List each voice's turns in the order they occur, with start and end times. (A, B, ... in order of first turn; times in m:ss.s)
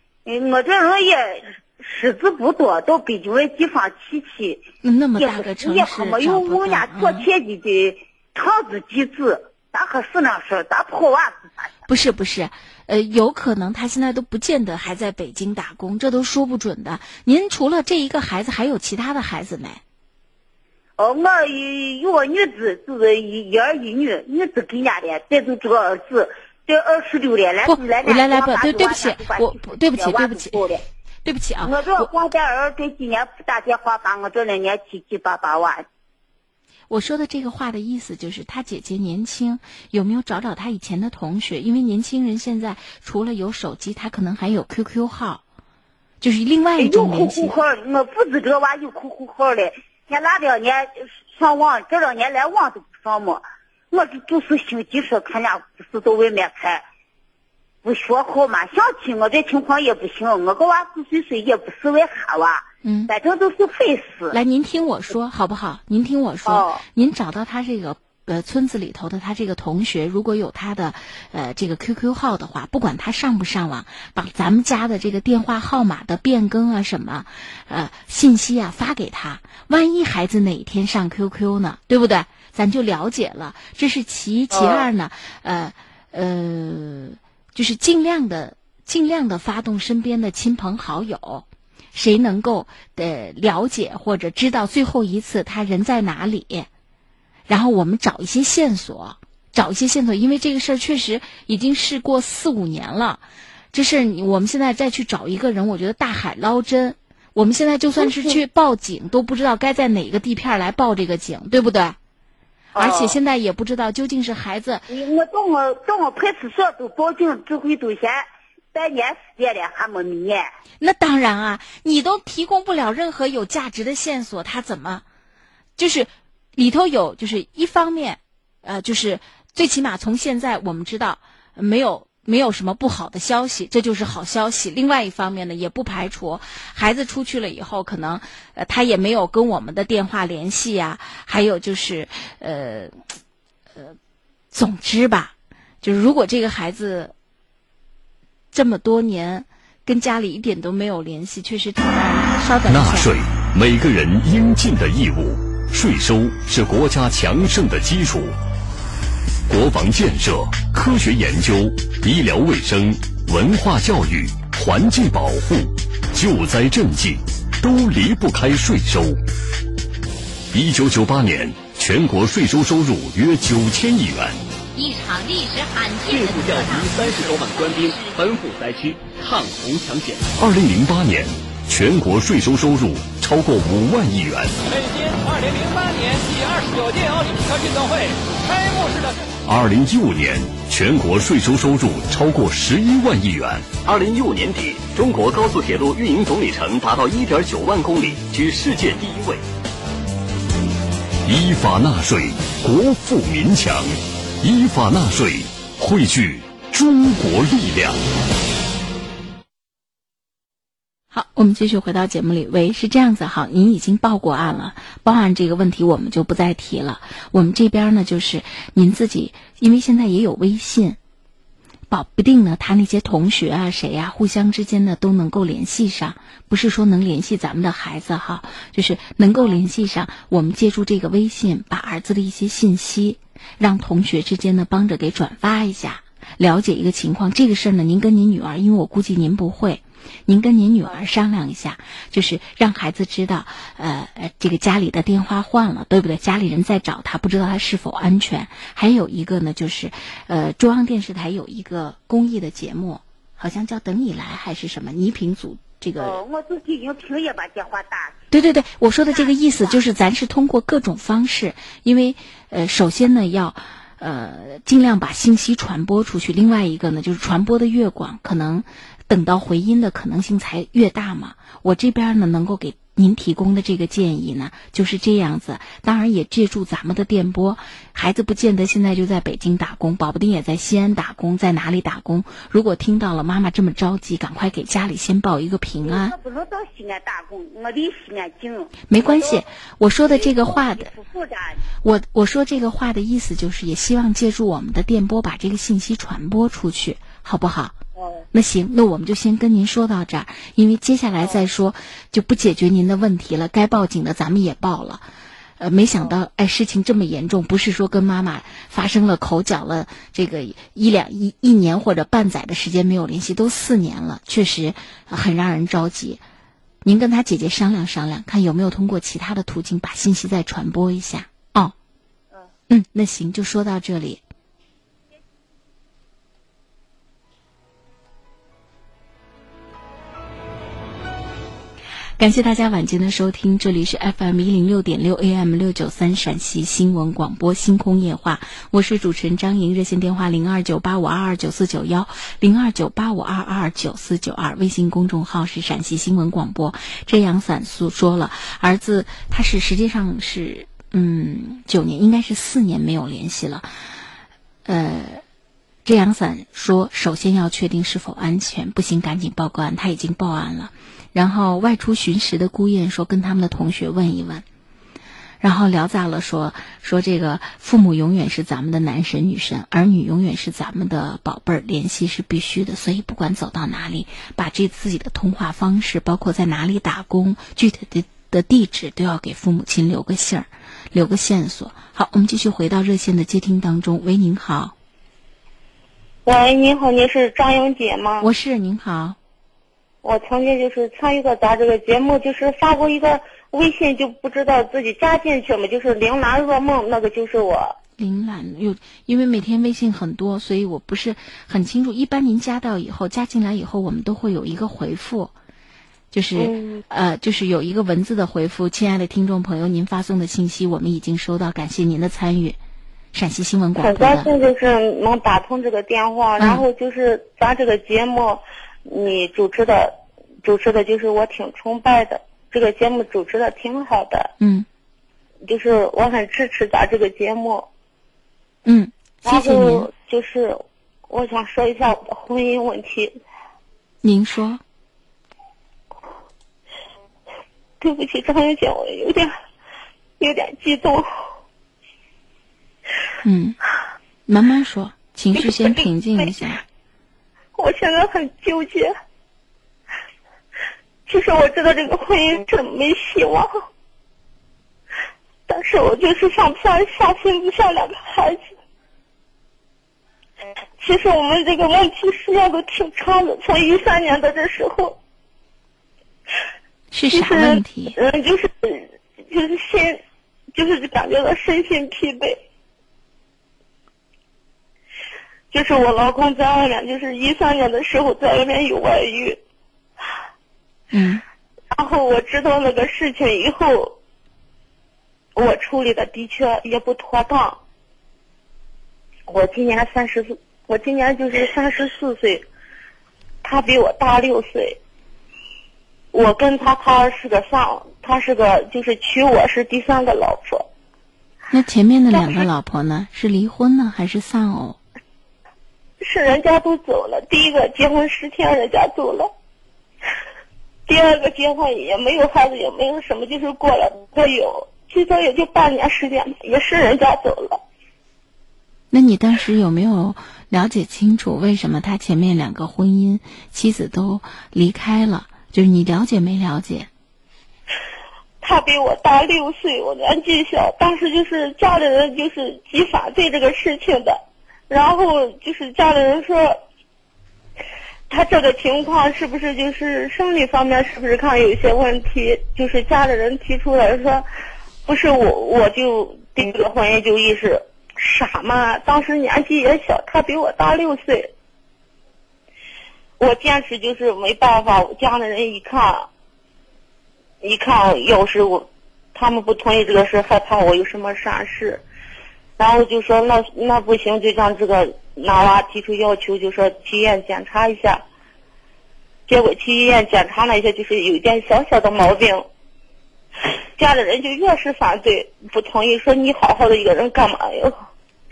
0:00.2-0:04.6 A
0:04.8-0:07.3 B
0:05.2-0:11.7 A
0:11.9-0:19.8 B
0:21.0-0:30.8 A
0:27.6-0:30.6 B
0:31.2-0:32.1 B
0:31.6-0:35.9 A
0:36.9-0:45.4 B
0:46.2-0:47.6 B
0:46.8-0:56.8 A
0:57.8-1:04.4 A
1:02.8-1:03.1 B
1:04.3-1:36.7 B
1:06.5-1:06.8 A
1:24.5-1:24.9 A
1:37.5-1:52.0 B
1:48.0-1:48.4 A
1:52.8-1:53.2 A
1:52.8-1:54.8 B
1:54.9-2:00.5 A
2:00.8-2:05.0 B
2:05.8-2:23.0 B
2:24.5-2:27.1 B
2:28.5-2:33.2 B
2:32.7-2:38.4 C
2:39.5-2:49.2 C
2:50.5-2:54.4 C
2:54.8-2:58.2 D
2:56.2-3:00.2 E
3:00.4-3:04.6 C
3:04.7-3:09.2 F
3:09.5-3:13.7 C
3:13.8-3:19.4 E
3:21.3-3:28.0 C
3:31.1-3:41.0 B
3:41.9-4:16.2 B
4:16.0-4:18.2 A
4:18.3-4:46.2 B
4:19.1-4:19.8 A
4:45.8-4:49.4 A
4:48.9-4:50.9 B
4:50.1-4:51.6 A
4:51.8-4:57.8 B
4:58.0-4:58.2 A
4:58.3-5:05.1 B
5:05.6-5:16.2 B
5:16.8-5:21.7 B
5:22.7-5:24.2 B
5:32.2-5:53.7 B
5:54.7-5:55.2 B
5:55.8-6:04.4 B
6:05.4-6:24.7 B
6:26.3-6:28.3 G
6:28.2-6:29.2 B
6:30.0-6:37.8 G
6:38.0-6:45.3 B
6:46.1-6:52.6 B
6:46.4-6:46.8 G
6:53.1-6:54.3 B
6:53.8-7:04.3 G
6:56.4-6:56.6 B
7:04.4-7:04.7 B
7:05.4-7:07.7 G
7:08.7-7:09.9 B
7:09.3-7:13.1 G
7:14.0-7:14.6 B
7:17.8-7:19.3 G
7:20.2-7:21.1 G
7:23.2-7:23.6 B
7:24.3-7:26.6 B
7:25.4-7:26.3 G
7:27.6-7:28.9 G
7:31.1-7:33.5 G
7:35.5-7:38.5 G
7:40.8-7:45.0 G
7:46.9-7:48.0 B
7:47.1-7:50.0 G
7:50.5-7:52.4 G
7:55.5-7:59.4 G
8:00.9-8:01.2 B
8:01.7-8:04.0 G
8:05.4-8:07.6 G
8:09.3-8:12.5 G
8:13.4-8:14.8 G
8:16.1-8:20.7 G
8:21.5-8:24.8 B
8:22.1-8:22.5 G
8:26.0-8:29.3 G
8:30.9-8:37.6 G
8:38.9-8:46.9 B
8:48.4-8:56.6 G
8:58.1-9:04.2 G
9:04.9-9:11.3 G
9:13.2-9:16.1 G
9:17.4-9:21.8 G
9:22.6-9:28.0 G
9:29.3-9:32.4 G
9:33.8-9:37.8 G